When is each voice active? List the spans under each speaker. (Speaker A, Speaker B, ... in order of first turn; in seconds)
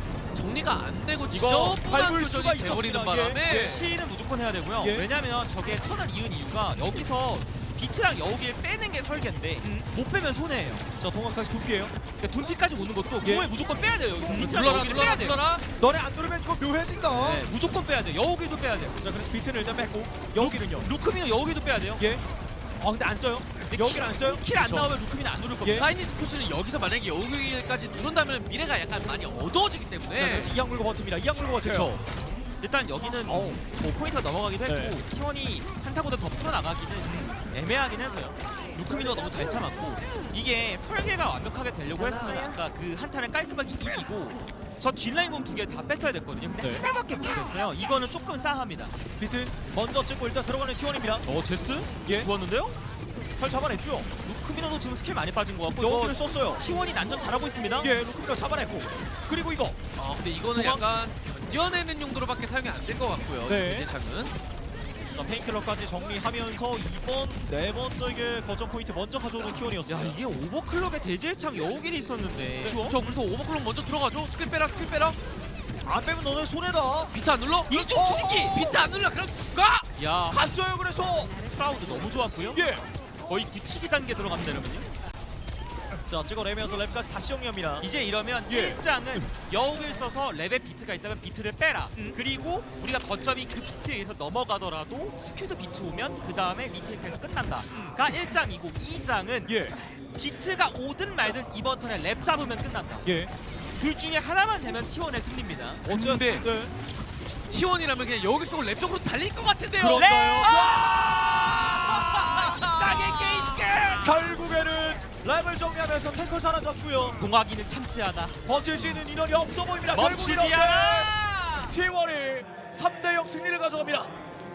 Speaker A: 0.3-3.9, 14.3-15.6, 24.6-24.9, 25.8-30.5, 31.6-32.0, 60.0-64.3, 72.7-75.2, 77.1-79.9, 105.8-106.5, 107.5-110.5, 112.2-113.5
Speaker B: 1.3-3.8, 4.8-5.1, 11.0-11.9, 13.2-13.5, 14.2-14.7, 15.8-17.4, 19.0-20.9, 22.8-24.4, 25.6-25.9, 30.1-31.9, 33.3-33.6, 34.6-35.0, 37.1-37.4, 46.6-46.9, 49.2-51.2, 53.4-54.1, 55.8-56.6, 57.8-59.8, 60.5-60.8, 63.5-63.9, 65.1-70.2, 75.8-77.1, 77.7-78.8, 80.3-81.3, 82.5-82.8, 86.1-87.9, 88.5-88.8, 99.5-99.7, 103.0-103.3, 105.9-106.7, 109.8-112.7, 114.0-117.2, 118.5-124.1
Speaker C: 3.5-10.9, 12.2-15.4, 17.1-19.0, 20.4-22.1, 23.7-25.9, 32.6-48.9, 51.3-52.8, 54.2-57.9, 69.9-73.0, 77.7-78.5, 80.0-80.4, 81.4-82.6, 83.2-84.9, 87.8-99.6, 100.2-103.1, 103.8-105.8, 109.9-114.1, 117.2-119.1, 119.9-121.7